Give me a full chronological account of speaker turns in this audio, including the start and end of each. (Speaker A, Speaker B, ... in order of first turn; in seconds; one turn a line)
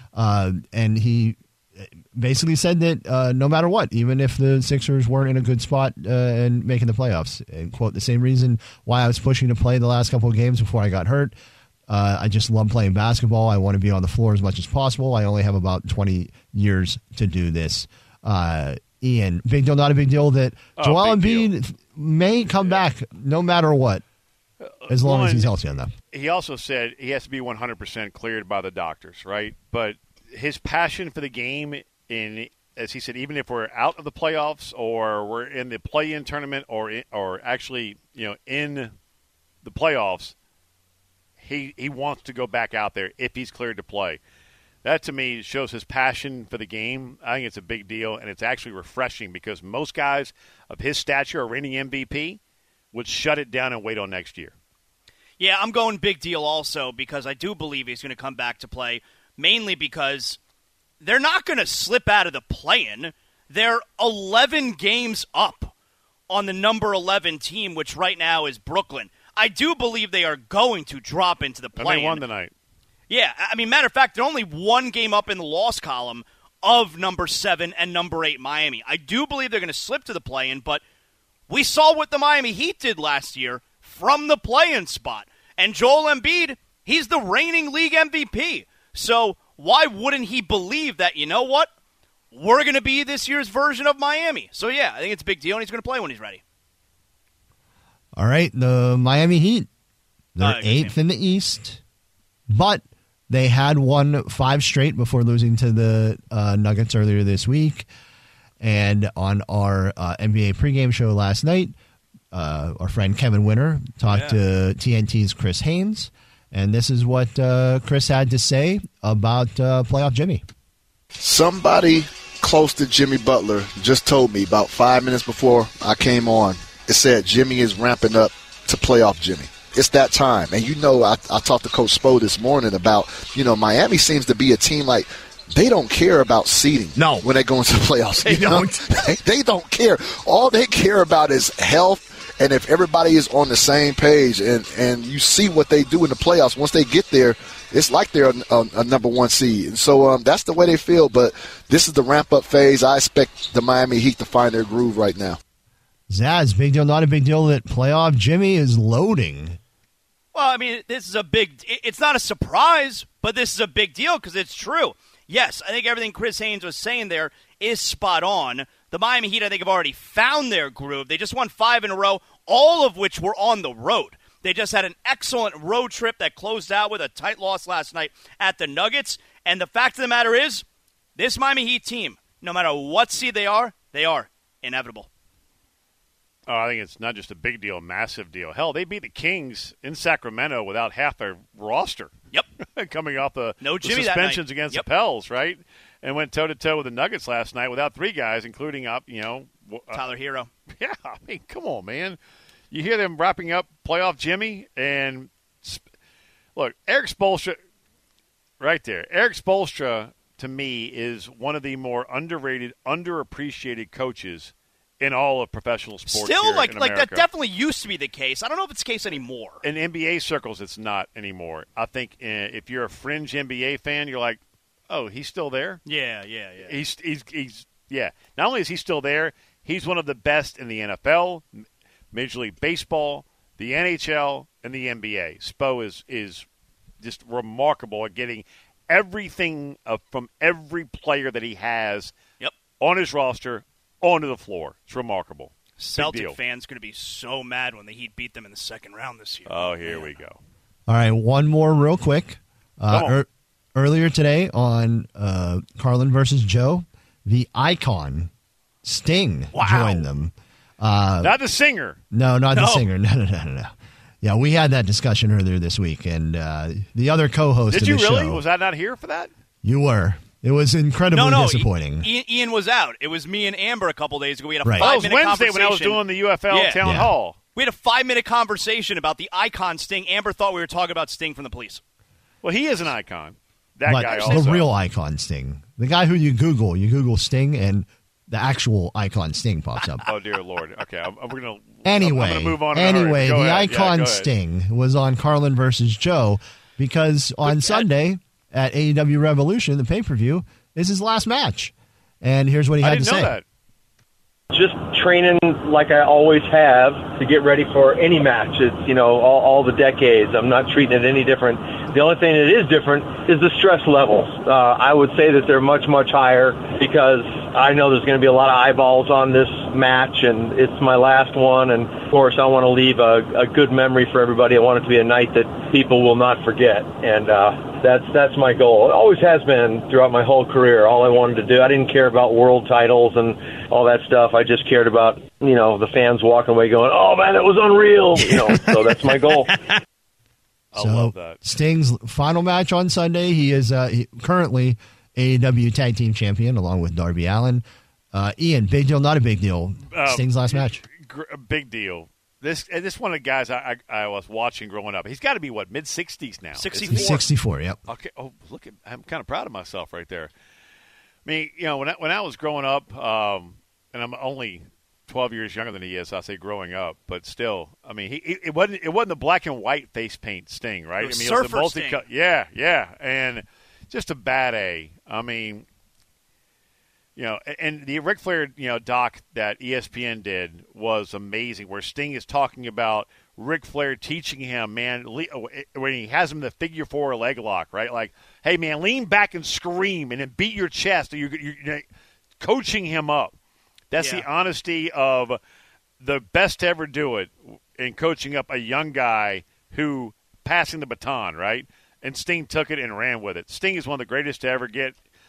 Speaker A: 0.1-11.3
Speaker A: 11.9-24.0
Speaker B: 20.8-21.5
Speaker B: 24.6-25.5
Speaker A: 24.9-25.9
Speaker B: 26.1-38.9
Speaker B: 39.6-40.3
Speaker B: 41.4-44.2
Speaker B: 44.8-52.4
Speaker B: 52.9-54.5
Speaker C: 55.4-60.4
Speaker C: 61.0-65.7
Speaker C: 66.3-72.2
Speaker B: 71.8-72.5
Speaker C: 73.1-80.8
Speaker C: 81.5-91.7
Speaker C: 92.3-96.4
Speaker A: 98.2-99.7
Speaker A: 100.3-101.8
Speaker C: 100.4-101.0
Speaker A: 102.5-107.9
Speaker A: 108.6-111.7
Speaker A: 112.3-120.4
Speaker C: 114.1-114.4
Speaker D: 121.2-155.4
Speaker A: 136.9-137.2
Speaker A: 138.2-139.2
Speaker A: 156.1-159.6
Speaker C: 160.3-180.6
Speaker C: 181.2-185.1
Speaker B: 186.5-192.1
Speaker B: 192.8-200.0
Speaker C: 193.6-194.8
Speaker C: 199.9-200.5
Speaker B: 200.8-202.2
Speaker B: 202.7-205.8
Speaker B: 206.6-207.6
Speaker B: 208.6-217.2
Speaker C: 216.1-219.6
Speaker B: 219.6-225.8
Speaker C: 225.8-226.7
Speaker B: 226.6-231.4
Speaker B: 232.1-236.4
Speaker B: 237.0-242.1
Speaker B: 242.8-246.3
Speaker C: 245.8-250.1
Speaker B: 249.5-250.4
Speaker A: 250.9-258.3
Speaker B: 252.9-253.2
Speaker A: 258.8-261.3
Speaker C: 259.6-259.8
Speaker B: 259.6-260.0
Speaker B: 261.2-262.0
Speaker A: 262.1-268.4
Speaker C: 262.5-262.9
Speaker B: 267.7-269.3
Speaker A: 269.6-272.1
Speaker C: 271.1-276.0
Speaker A: 274.6-274.9
Speaker B: 274.8-277.4
Speaker C: 276.5-276.8
Speaker A: 276.8-277.1
Speaker C: 277.5-281.8
Speaker B: 282.4-284.7
Speaker A: 283.9-290.0
Speaker C: 284.0-284.5
Speaker B: 290.1-294.3
Speaker A: 291.8-303.3
Speaker C: 297.4-297.8
Speaker B: 302.8-303.4
Speaker E: 304.5-339.7
Speaker B: 340.7-341.4
Speaker A: 340.7-350.8
Speaker B: 349.9-357.2
Speaker C: 356.5-357.2
Speaker A: 356.9-357.8
Speaker B: 357.9-360.3
Speaker B: 361.2-375.6
Speaker C: 371.0-372.0
Speaker B: 377.1-391.8
Speaker B: 392.4-393.3
Speaker B: 393.9-395.4
Speaker C: 394.0-394.2
Speaker B: 396.0-404.9